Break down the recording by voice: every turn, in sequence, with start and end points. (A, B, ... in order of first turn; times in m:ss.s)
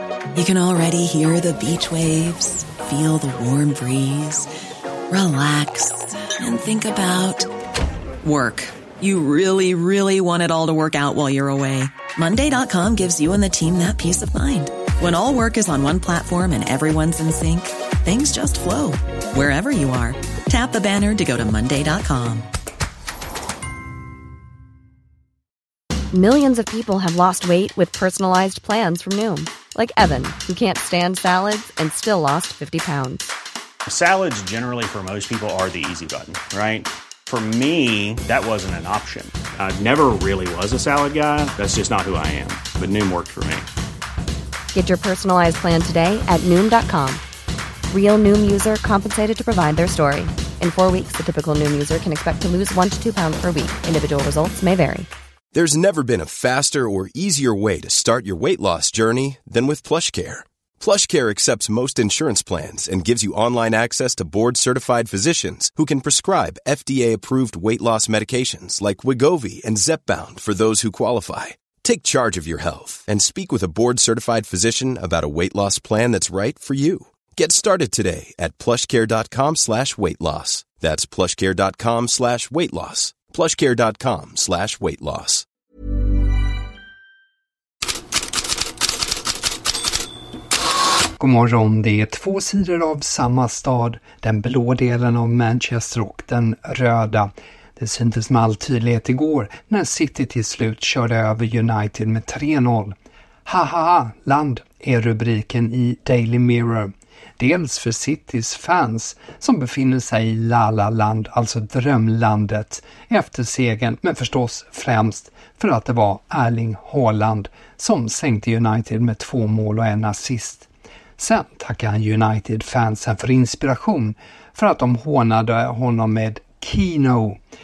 0:00.3-0:04.5 A
0:05.1-0:07.5 A
0:08.2-0:22.5 A
0:26.1-0:33.2 B
0:33.9-0:43.7 C
0:44.7-0:47.2 B
0:47.9-0:55.1 B
0:55.5-1:25.5 D
1:31.2-1:42.9 E
1:43.5-2:07.4 E